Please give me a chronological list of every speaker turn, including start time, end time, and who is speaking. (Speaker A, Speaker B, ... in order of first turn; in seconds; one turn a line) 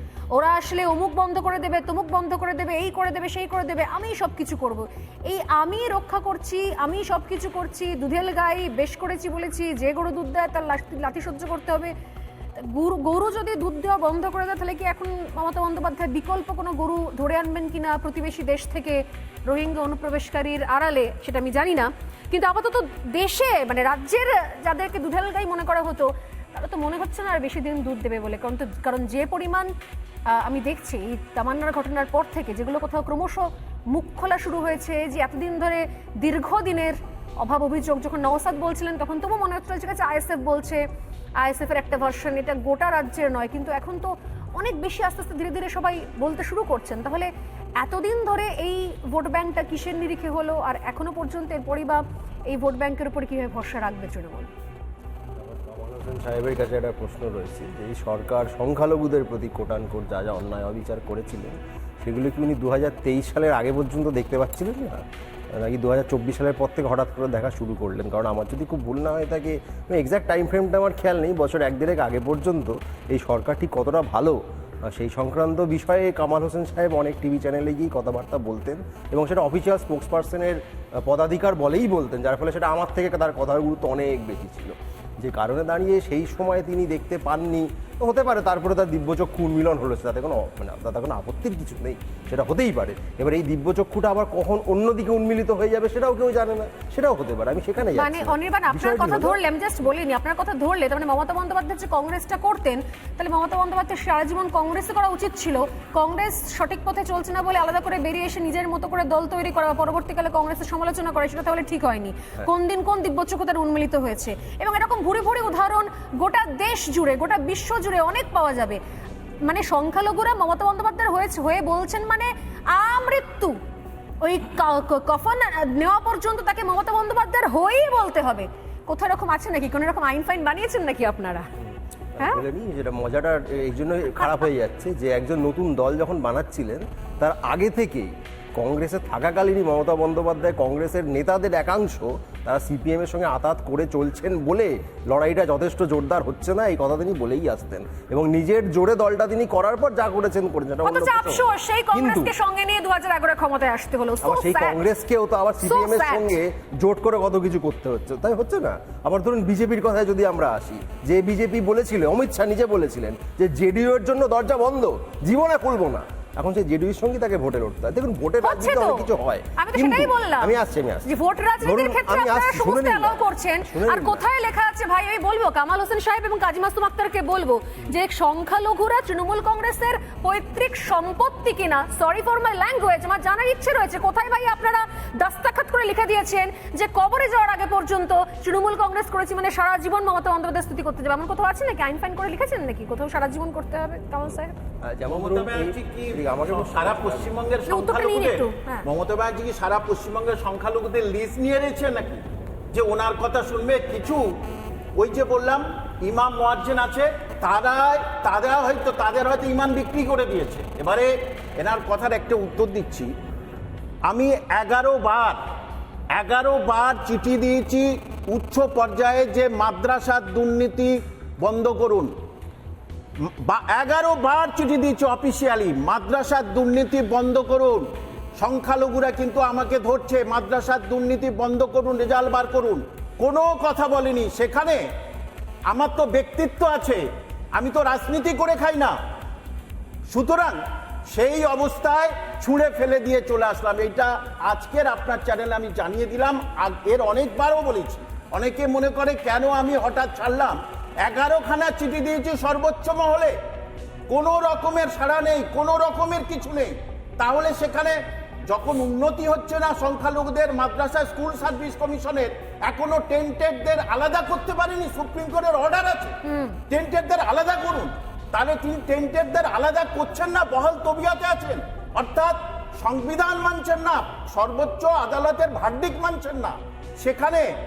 Speaker A: 0.3-11.9
Speaker A: 12.6-29.7
Speaker A: 30.3-40.8
Speaker A: 41.4-54.5
Speaker B: 55.4-99.4
Speaker A: 97.9-118.8
Speaker A: 119.4-123.6
Speaker A: 124.2-131.5
Speaker B: 132.2-152.3
Speaker A: 150.8-154.8
Speaker B: 154.2-174.2
Speaker A: 155.6-156.4
Speaker A: 168.4-194.6
Speaker B: 194.8-197.3
Speaker C: 195.1-204.2
Speaker A: 197.7-198.9
Speaker C: 205.0-213.1
Speaker C: 214.1-215.4
Speaker C: 216.1-222.1
Speaker C: 223.2-227.9
Speaker C: 228.4-234.8
Speaker C: 235.7-237.0
Speaker C: 237.5-239.0
Speaker C: 240.1-240.6
Speaker C: 241.1-253.4
Speaker C: 254.1-266.1
Speaker A: 266.2-266.6
Speaker C: 266.7-277.5